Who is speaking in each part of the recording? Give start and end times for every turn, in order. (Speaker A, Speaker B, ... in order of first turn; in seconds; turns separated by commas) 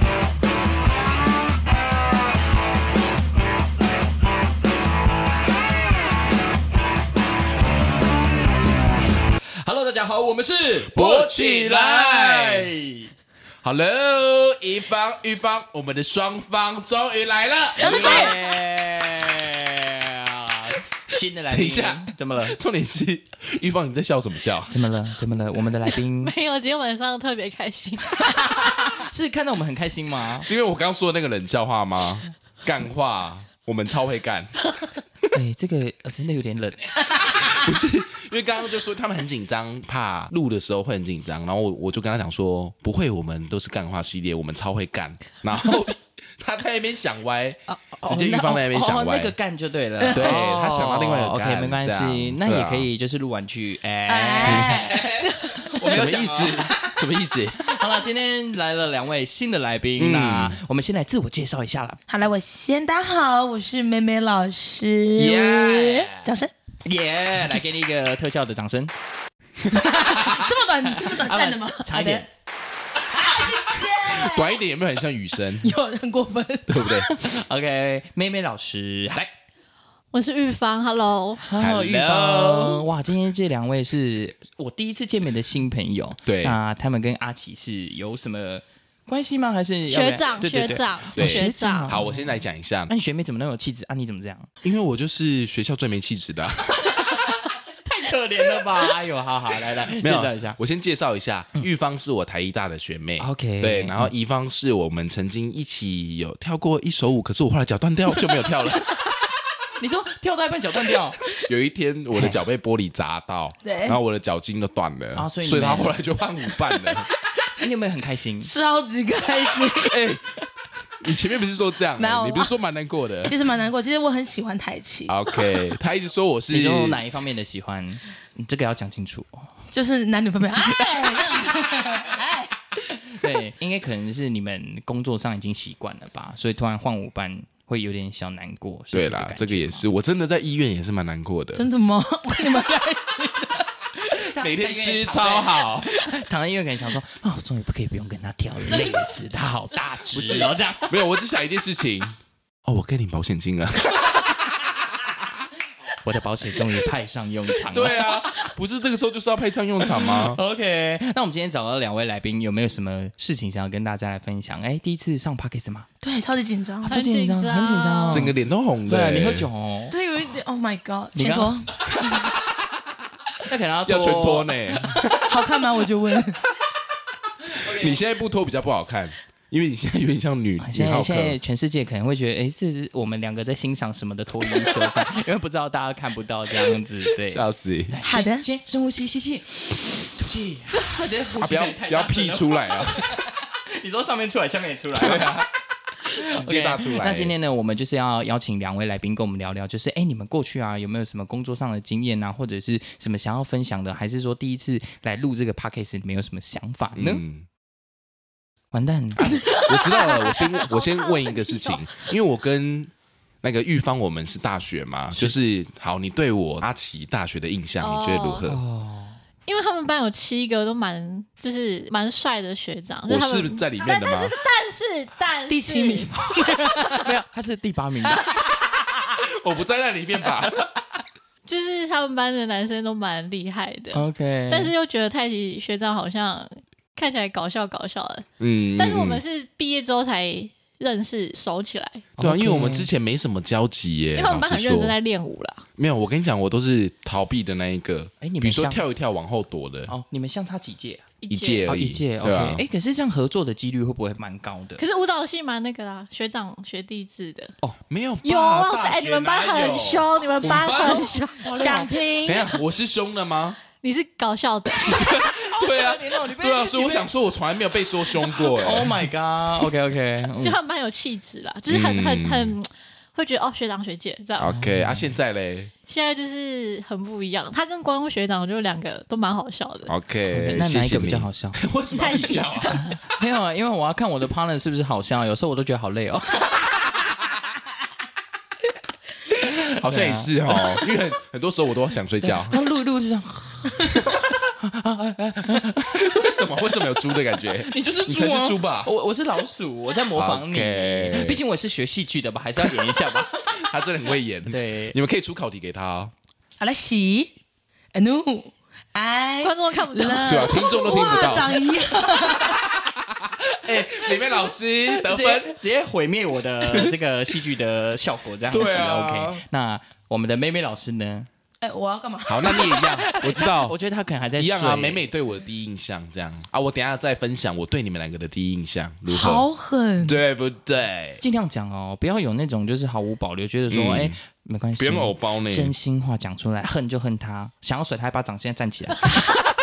Speaker A: 9.6-13.1, Speaker B: 10.8-12.7, Speaker B: 13.6-18.4, Speaker A: 17.8-22.6, Speaker C: 17.8-18.3, Speaker B: 21.5-24.8, Speaker A: 24.7-26.3, Speaker D: 26.2-28.4, Speaker A: 28.9-30.5, Speaker B: 30.4-34.6, Speaker A: 35.3-37.3, Speaker B: 37.2-49.3, Speaker A: 47.7-56.8, Speaker C: 50.0-50.3, Speaker B: 50.1-52.9, Speaker C: 54.1-55.7, Speaker B: 54.4-55.0, Speaker B: 55.8-57.8, Speaker A: 57.6-62.0, Speaker B: 60.0-60.6, Speaker C: 62.1-66.5, Speaker A: 65.2-66.3, Speaker A: 66.8-68.9, Speaker C: 69.7-72.2, Speaker A: 70.1-72.3, Speaker C: 73.1-74.6, Speaker B: 73.8-75.7, Speaker C: 75.6-77.0, Speaker B: 76.7-77.1, Speaker A: 77.1-79.2, Speaker D: 80.1-81.4, Speaker A: 81.4-94.5, Speaker B: 81.6-82.8, Speaker B: 86.2-86.6, Speaker D: 89.9-92.0, Speaker B: 91.1-92.9, Speaker B: 94.6-97.0, Speaker A: 97.8-100.6, Speaker B: 100.0-108.9, Speaker A: 103.2-104.1, Speaker A: 109.8-111.2, Speaker B: 111.5-117.1, Speaker C: 113.6-114.0, Speaker A: 115.1-116.0, Speaker C: 116.5-117.0, Speaker A: 117.6-118.5, Speaker C: 118.4-120.1, Speaker B: 119.8-120.2, Speaker B: 121.0-123.4, Speaker C: 122.0-122.5, Speaker C: 123.2-125.6, Speaker B: 125.1-127.0, Speaker A: 126.5-129.6, Speaker C: 129.7-132.6, Speaker A: 132.9-139.8, Speaker B: 138.9-141.7, Speaker C: 141.5-143.7, Speaker A: 144.1-150.9, Speaker B: 144.2-145.9, Speaker B: 150.1-155.2, Speaker A: 156.0-158.5, Speaker B: 157.7-160.4, Speaker A: 159.8-165.9, Speaker C: 166.0-167.0, Speaker A: 166.8-168.3, Speaker D: 166.8-168.3, Speaker B: 168.1-169.5, Speaker A: 168.9-169.9, Speaker C: 169.9-171.7, Speaker A: 171.1-171.6, Speaker A: 173.4-175.0, Speaker B: 173.8-175.3, Speaker C: 175.2-176.4, Speaker A: 177.5-178.0, Speaker B: 177.5-181.4, Speaker A: 180.6-195.4, Speaker B: 187.2-188.0, Speaker C: 188.0-188.5, Speaker B: 191.4-193.2, Speaker B: 194.9-195.5, Speaker B: 196.1-197.3, Speaker A: 196.1-207.2, Speaker B: 206.9-207.5, Speaker A: 208.7-209.4, Speaker B: 209.2-212.9, Speaker D: 209.5-212.0, Speaker B: 213.4-218.6, Speaker D: 217.8-218.5, Speaker A: 218.4-219.2, Speaker D: 219.5-226.1, Speaker B: 223.1-224.3, Speaker C: 223.8-224.2, Speaker C: 225.5-227.1, Speaker A: 226.9-228.2, Speaker B: 229.2-230.8, Speaker D: 231.5-238.2, Speaker A: 233.9-234.7, Speaker B: 238.4-239.2, Speaker D: 238.8-242.1, Speaker A: 242.2-242.9, Speaker B: 242.2-244.9, Speaker D: 244.1-245.6, Speaker B: 245.8-249.9, Speaker A: 248.2-248.8, Speaker A: 249.9-251.1, Speaker D: 251.2-251.7, Speaker B: 251.3-252.6, Speaker A: 251.7-254.8, Speaker D: 254.8-257.5, Speaker B: 257.9-261.1, Speaker D: 258.2-261.8, Speaker A: 261.4-261.9, Speaker C: 261.6-262.6, Speaker B: 262.2-263.6, Speaker D: 263.8-265.1, Speaker B: 264.7-269.1, Speaker A: 265.4-267.1, Speaker A: 268.2-270.6, Speaker D: 270.4-274.6, Speaker B: 271.7-272.5, Speaker B: 274.4-275.7, Speaker A: 274.4-275.1, Speaker D: 275.9-279.9, Speaker B: 279.9-282.8, Speaker A: 280.3-286.6, Speaker D: 281.9-283.0, Speaker A: 289.5-290.8, Speaker B: 289.7-292.6, Speaker A: 292.2-296.7, Speaker B: 295.5-298.9, Speaker A: 297.4-303.6, Speaker B: 300.1-301.4, Speaker B: 302.6-306.1, Speaker A: 304.5-305.0, Speaker C: 306.6-307.3, Speaker C: 307.9-312.6, Speaker D: 309.4-310.8, Speaker B: 310.2-311.6, Speaker B: 312.2-315.6, Speaker A: 314.9-321.3, Speaker B: 316.7-316.9, Speaker B: 318.5-319.4, Speaker C: 321.6-322.9, Speaker B: 322.2-323.8, Speaker A: 322.4-325.1, Speaker B: 324.4-329.5, Speaker C: 329.1-330.2, Speaker B: 330.0-331.2, Speaker A: 331.2-339.2, Speaker B: 333.7-334.2, Speaker B: 334.8-335.7